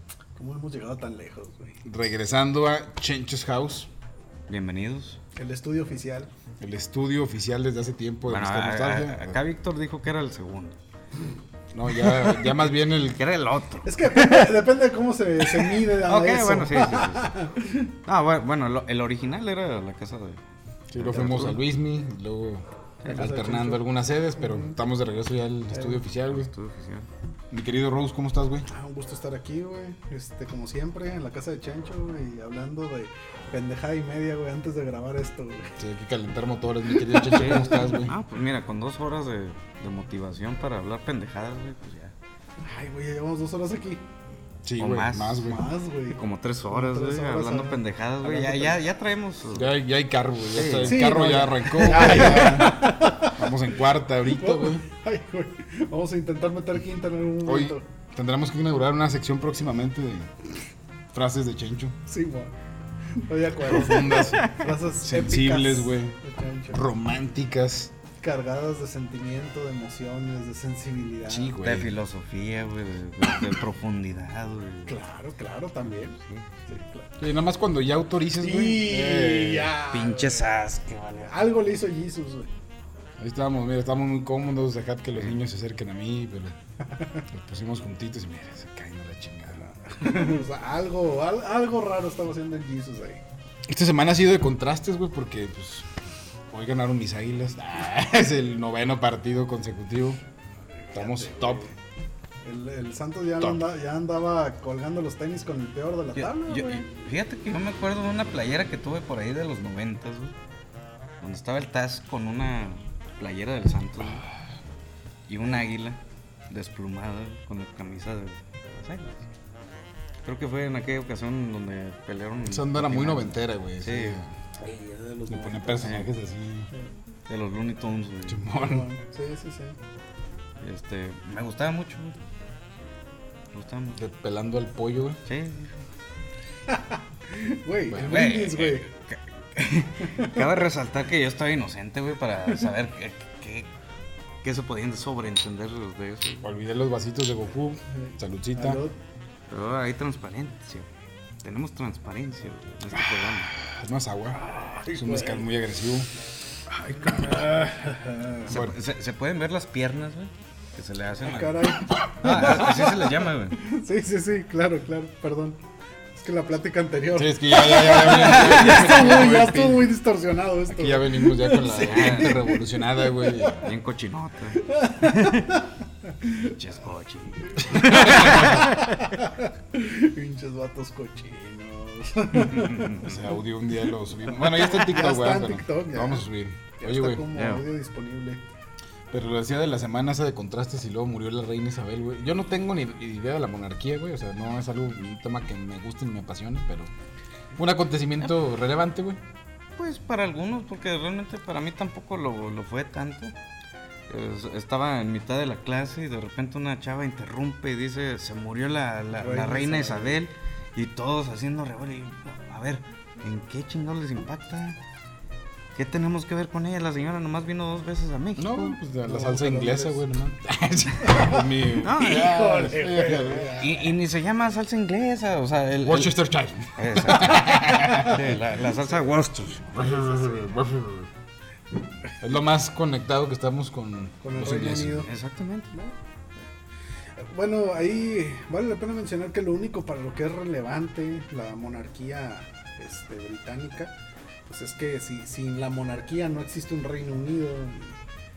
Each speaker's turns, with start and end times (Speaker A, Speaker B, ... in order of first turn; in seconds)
Speaker A: 0.4-1.8, 5.4-6.3, 12.0-12.3, 13.8-17.9, 23.1-24.8, 25.7-26.0, 28.7-35.8, 37.0-38.0, 42.6-44.0, 45.4-46.2, 46.7-48.8, 50.8-53.5, 54.2-57.9, 62.1-62.5, 63.1-66.8, 68.2-71.6, 74.9-76.2, 76.7-77.1, 78.4-80.5, 81.3-82.5, 89.6-93.2, 100.9-101.7, 102.4-106.9, 124.6-126.0, 128.5-129.8, 136.7-138.9, 140.0-140.4, 147.9-149.0, 154.3-155.5, 156.9-158.5, 161.2-165.6, 166.2-173.6, 174.6-175.7, 176.2-176.6, 177.5-183.1, 184.3-186.3, 186.8-188.4, 209.2-210.2, 219.1-220.1, 221.0-223.9, 227.7-228.9, 229.7-230.4, 234.2-235.1, 237.2-243.9, 244.5-247.9
Speaker B: 1.9-3.9, 6.6-9.4, 11.7-13.2, 20.9-26.5, 27.5-28.7, 35.8-38.2, 44.6-45.6, 49.5-54.8, 57.5-60.3, 61.1-62.0, 63.6-64.5, 65.0-66.2, 66.7-67.9, 71.3-71.9, 77.2-79.7, 83.2-86.5, 87.3-89.6, 93.7-95.9, 96.5-100.2, 101.0-101.7, 122.5-124.3, 125.3-126.7, 128.3-128.9, 134.0-135.2, 137.9-138.2, 146.4-148.8, 152.9-156.1, 156.7-157.5, 158.5-158.8, 162.3-162.7, 167.1-169.9, 170.7-173.6, 177.7-178.8, 183.0-187.3, 189.1-196.9, 197.6-199.2, 218.4-223.6, 225.8-228.4, 229.7-231.1, 232.2-235.1
Speaker C: 4.5-5.2, 8.3-10.8, 13.1-14.5, 15.5-17.3, 18.1-20.4, 21.0-21.6, 23.0-23.3, 26.3-27.1, 37.3-42.1, 44.8-45.5, 46.1-49.7, 50.5-51.2, 51.9-52.5, 64.1-64.7, 71.3-75.0, 76.1-76.6, 79.9-81.4, 106.2-110.3, 111.2-114.3, 115.3-116.0, 116.5-119.2, 120.2-124.2, 125.8-126.1, 127.3-128.4, 130.6-132.1, 133.5-134.0, 135.3-135.7, 137.9-143.7, 144.4-146.4, 149.5-150.9, 151.4-153.6, 158.5-163.6, 168.1-169.0, 171.8-172.4, 173.6-175.6, 176.5-179.2, 182.4-183.2, 187.3-187.7, 199.8-203.3, 204.1-214.8, 215.8-218.8, 221.8-222.6, 223.6-226.2, 226.8-229.7, 235.1-235.7